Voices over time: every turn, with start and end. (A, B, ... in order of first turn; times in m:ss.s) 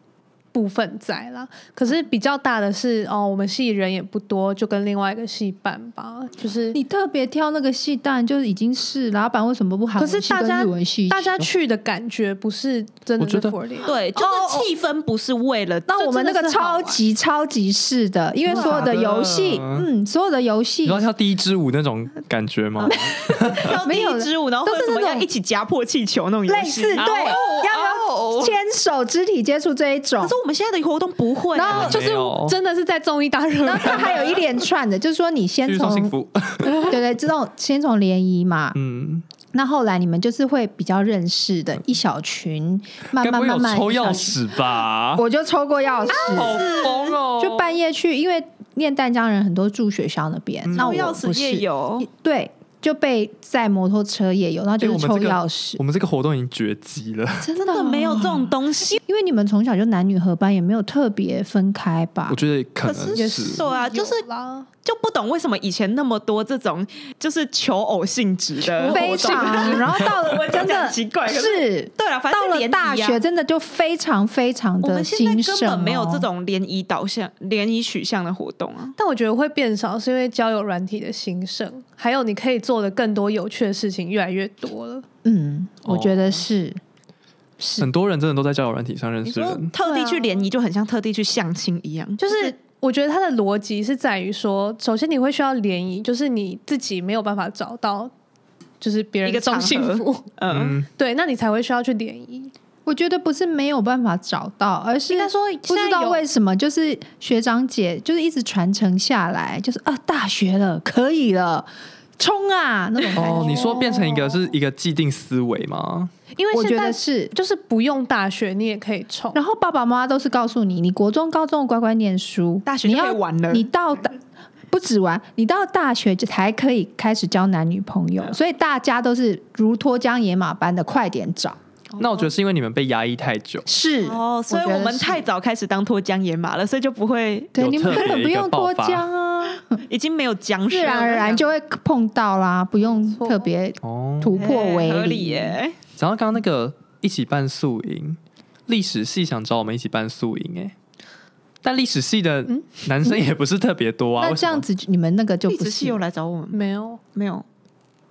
0:00.5-0:06.8 A
0:06.7-0:11.4 B
0:10.0-0:14.7 A
0:13.2-0:13.6 C
0:13.8-0:16.0 D
0:15.9-0:21.1 B
0:16.0-0:17.0 A
0:18.5-0:19.1 D
0:18.5-0:19.9 C
0:20.8-0:23.8 C
0:22.8-0:25.2 B
0:23.6-0:28.1 D
0:26.5-0:30.4 B
0:27.4-0:28.4 C
0:30.2-0:32.0 D
0:31.5-0:32.0 B
0:31.7-0:32.6 C
0:31.7-0:34.4 A
0:33.6-0:38.8 B
0:35.6-0:37.0 C
0:38.7-0:39.2 C
0:39.5-0:44.6 B
0:43.2-0:45.2 C
0:45.1-0:46.7 B
0:46.0-0:47.2 D
0:46.2-0:47.7 C
0:47.4-0:55.8 B
0:50.6-0:51.1 C
0:50.7-0:52.1 D
0:54.8-0:57.5 C
0:57.4-1:02.4 B
0:57.6-0:59.0 D
1:02.3-1:03.6 C
1:02.8-1:04.2 D
1:03.1-1:04.7 A
1:04.8-1:13.2 D
1:08.6-1:09.8 A
1:08.8-1:16.3 B
1:14.8-1:19.0 D
1:19.0-1:25.0 A
1:25.2-1:26.8 B
1:25.8-1:26.4 C
1:27.6-1:27.9 B
1:27.8-1:29.7 C
1:29.2-1:32.5 D
1:29.8-1:30.3 B
1:32.2-1:38.1 A
1:38.8-1:40.3 A
1:39.2-1:40.8 D
1:40.5-1:40.9 C
1:41.0-1:42.5 A
1:42.8-1:54.0 B
1:45.1-1:46.2 A
1:53.1-1:56.1 C
1:53.2-1:54.5 A
1:56.4-1:59.4 A
1:56.5-1:57.3 B
1:59.3-2:04.2 B
2:02.6-2:03.7 D
2:04.7-2:11.6 B
2:12.0-2:12.3 D
2:12.0-2:13.6 C
2:13.6-2:15.2 B
2:14.0-2:18.1 D
2:17.5-2:19.8 B
2:17.6-2:19.0 C
2:19.9-2:21.4 D
2:20.7-2:25.6 B
2:22.8-2:23.4 A
2:23.8-2:24.4 C
2:24.4-2:25.8 D
2:26.0-2:30.7 C
2:31.6-2:34.6 C
2:32.5-2:32.8 A
2:34.2-2:36.0 B
2:35.5-2:36.6 D
2:36.5-2:37.0 A
2:37.1-2:37.4 D